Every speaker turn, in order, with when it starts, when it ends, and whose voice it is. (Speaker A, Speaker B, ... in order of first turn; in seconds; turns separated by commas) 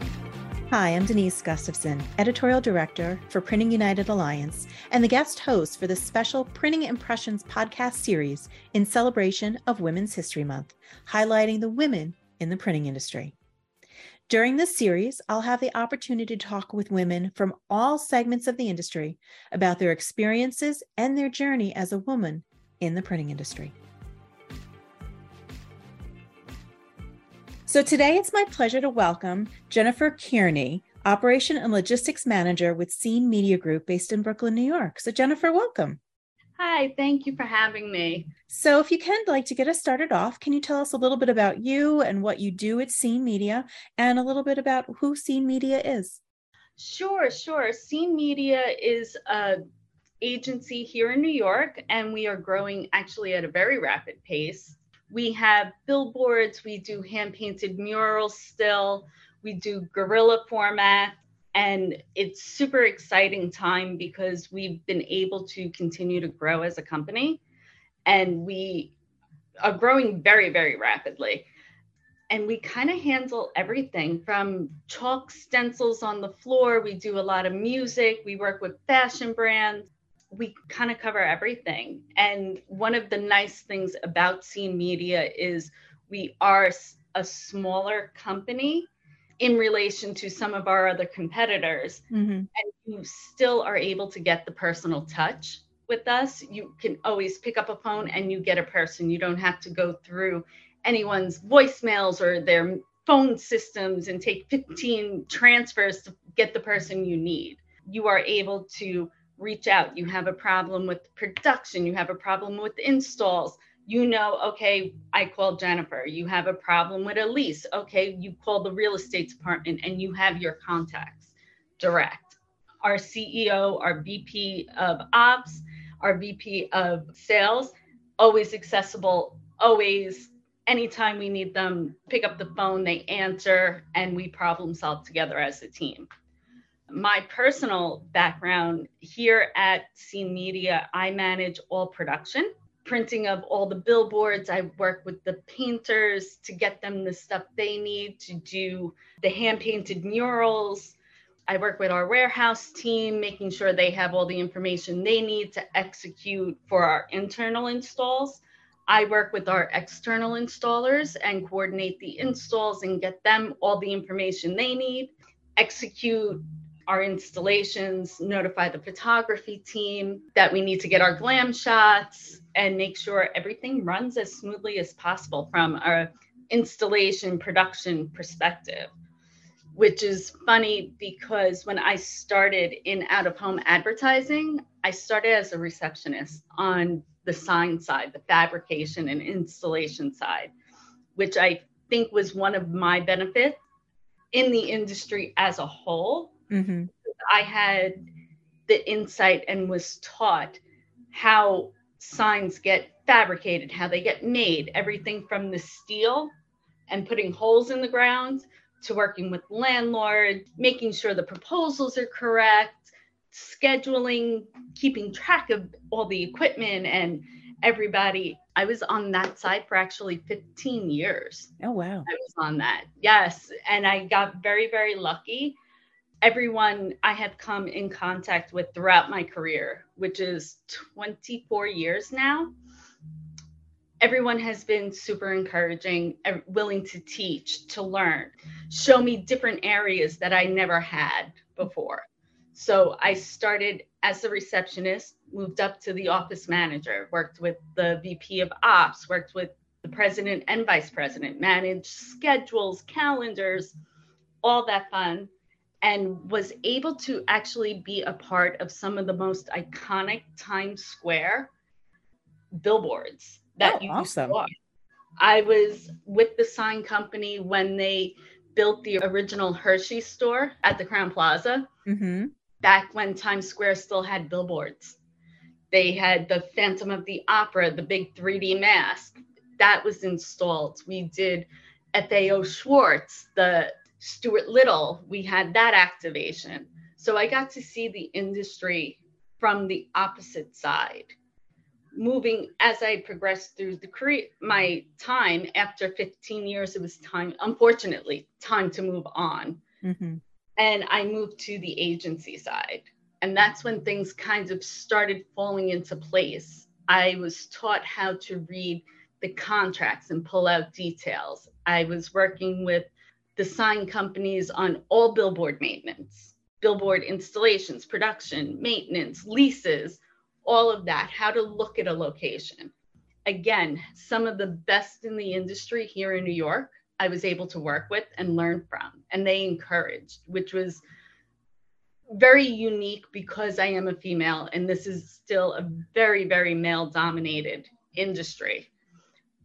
Speaker A: 0.7-13.3, Speaker A: 14.3-23.7, Speaker A: 27.7-36.0, Speaker B: 36.6-38.3, Speaker A: 38.5-46.2, Speaker B: 46.8-49.6, Speaker B: 50.2-67.4, Speaker B: 68.0-68.9, Speaker B: 69.6-71.5, Speaker B: 72.3-88.9, Speaker B: 89.4-92.0, Speaker A: 92.1-92.5, Speaker B: 92.5-136.1, Speaker B: 136.9-150.9, Speaker B: 151.5-178.9, Speaker B: 179.8-190.5, Speaker B: 191.2-193.6, Speaker B: 194.3-196.3, Speaker A: 196.5-196.9, Speaker B: 197.1-198.0, Speaker B: 198.7-200.6, Speaker B: 201.1-206.3, Speaker B: 206.9-221.5, Speaker A: 221.6-222.1, Speaker B: 222.1-225.5, Speaker B: 226.2-232.5, Speaker B: 234.0-253.7, Speaker B: 254.4-255.3, Speaker B: 255.8-261.5, Speaker B: 262.6-264.5, Speaker A: 263.6-264.4, Speaker B: 265.2-271.7, Speaker A: 271.9-272.3, Speaker B: 272.6-275.0, Speaker B: 275.7-291.1, Speaker B: 291.9-299.6, Speaker A: 299.8-300.2, Speaker B: 300.6-322.7, Speaker B: 323.2-330.8, Speaker B: 332.1-338.7